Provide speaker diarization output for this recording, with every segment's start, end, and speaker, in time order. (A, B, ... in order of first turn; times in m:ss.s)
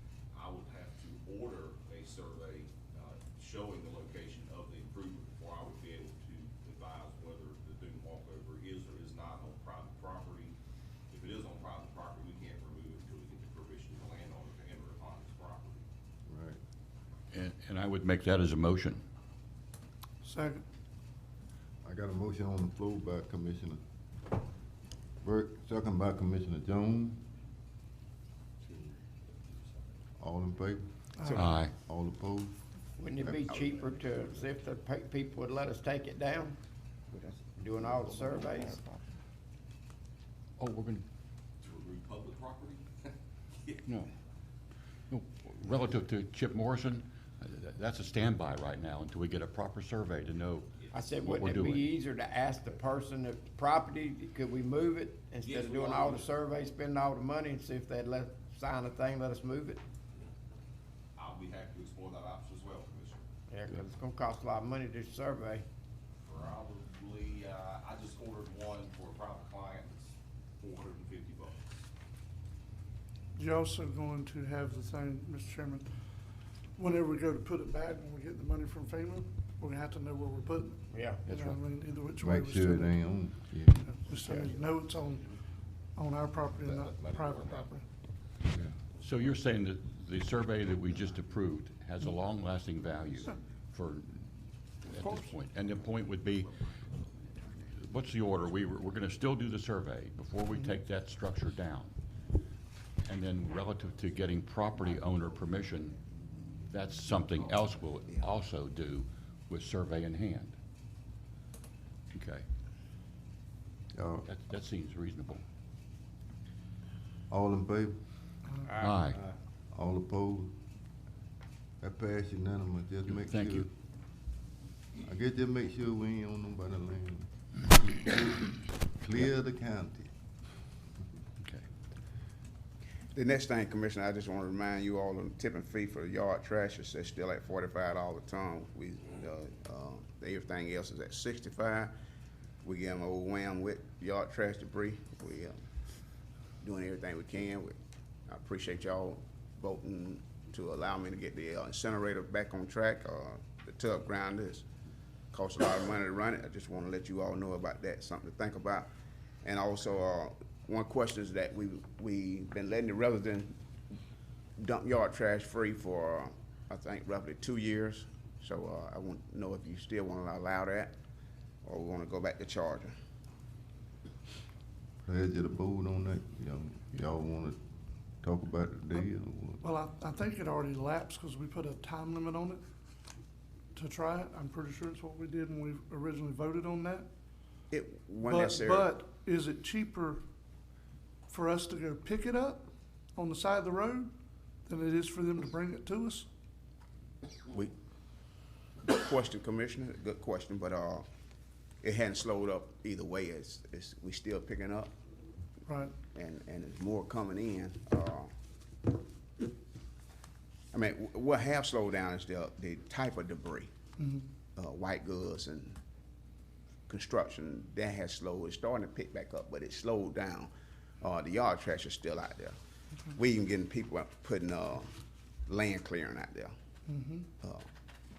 0:00.3-0:10.6 A
0:11.1-0:15.8 A
0:16.3-0:16.6 B
0:17.3-0:19.0 C
0:20.2-0:20.6 D
0:21.8-0:23.8 B
0:25.2-0:27.2 B
0:30.2-0:30.9 B
0:31.2-0:31.5 D
0:31.2-0:31.5 E
0:31.4-0:31.7 C
0:31.8-0:32.6 B
0:33.0-0:36.6 F
0:33.2-0:34.4 E
0:37.1-0:39.1 E
0:37.6-0:38.8 F
0:40.6-0:41.1 C
0:41.6-0:43.9 A
0:43.9-0:44.1 C
0:45.1-0:51.9 C
0:50.8-0:51.4 A
0:50.9-0:59.8 F
0:55.4-0:56.3 A
1:01.2-1:03.2 A
1:03.5-1:05.6 F
1:06.2-1:11.6 A
1:13.4-1:15.9 D
1:16.8-1:23.0 D
1:20.9-1:21.3 F
1:21.3-1:21.6 C
1:22.2-1:23.8 B
1:23.9-1:25.4 D
1:26.0-1:27.9 D
1:28.6-1:36.6 C
1:35.0-1:35.3 D
1:37.8-1:41.9 C
1:40.5-1:40.8 D
1:43.0-1:46.0 C
1:46.7-1:50.6 C
1:52.1-1:52.5 C
1:53.9-1:54.3 B
1:54.3-1:55.4 C
1:57.3-1:58.0 B
1:58.8-1:59.0 F
1:58.8-1:59.2 C
1:59.7-2:00.6 B
2:01.8-2:03.7 B
2:03.1-2:03.7 C
2:05.0-2:10.1 B
2:13.1-2:21.9 E
2:22.6-2:25.6 E
2:26.6-2:27.8 E
2:28.3-2:34.7 E
2:35.3-2:38.9 E
2:39.4-2:43.6 E
2:44.6-2:51.0 E
2:51.6-2:52.9 E
2:55.0-2:57.6 B
2:58.2-2:59.6 B
2:59.6-3:02.6 D
3:03.8-3:07.1 D
3:07.7-3:08.9 E
3:08.2-3:10.2 D
3:11.3-3:14.1 D
3:14.7-3:16.3 D
3:17.5-3:17.7 E
3:18.8-3:21.1 E
3:21.8-3:24.9 E
3:25.7-3:25.9 D
3:26.1-3:28.3 E
3:30.7-3:33.7 E
3:34.0-3:34.3 D
3:34.6-3:35.8 E
3:36.9-3:42.6 E
3:43.1-3:44.9 E
3:45.5-3:46.6 E
3:46.9-3:47.3 D
3:47.4-3:47.7 E